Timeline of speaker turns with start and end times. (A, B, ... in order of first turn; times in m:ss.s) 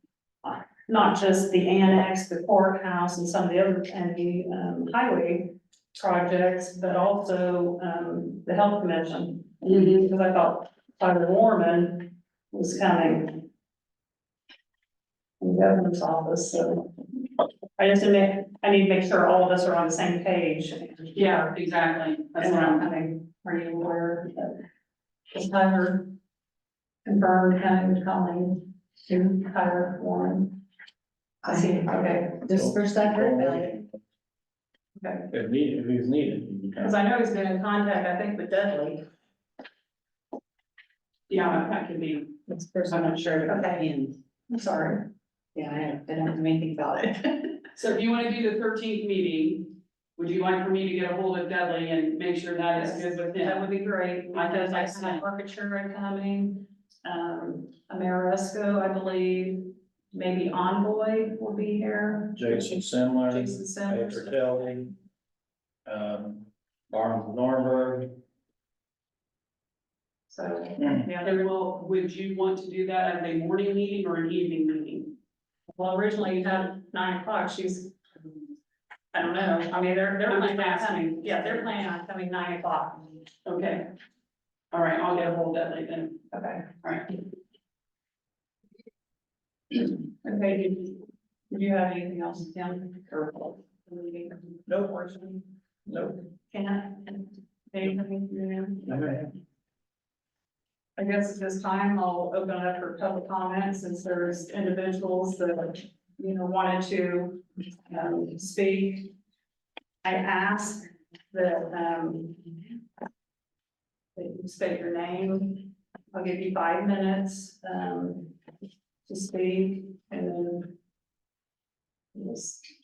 0:00.4-0:13.4 A
0:15.4-0:16.9 A
0:17.8-0:21.4 A
0:21.1-0:22.8 B
0:22.4-0:24.6 A
0:25.3-0:26.1 A
0:27.0-0:30.6 A
0:31.4-0:33.8 C
0:31.5-0:32.3 A
0:32.5-0:33.5 D
0:35.0-0:35.3 A
0:35.3-0:37.0 D
0:36.8-0:39.0 A
0:41.3-0:42.3 B
0:42.5-0:44.2 C
0:42.9-0:43.2 B
0:43.4-0:43.9 A
0:44.5-0:45.1 A
0:45.5-0:47.5 C
0:47.7-0:55.2 B
0:52.7-1:04.4 A
1:02.3-1:04.9 D
1:05.8-1:08.0 D
1:10.3-1:11.4 A
1:10.8-1:11.0 D
1:11.2-1:15.1 B
1:15.7-1:17.9 A
1:19.1-1:23.2 A
1:20.3-1:21.6 B
1:23.4-1:23.9 B
1:24.7-1:26.2 B
1:26.3-1:26.6 A
1:29.8-1:39.2 A
1:41.0-1:49.1 A
1:50.0-1:52.5 A
1:54.1-1:58.3 A
1:59.0-2:00.7 A
2:02.1-2:02.7 A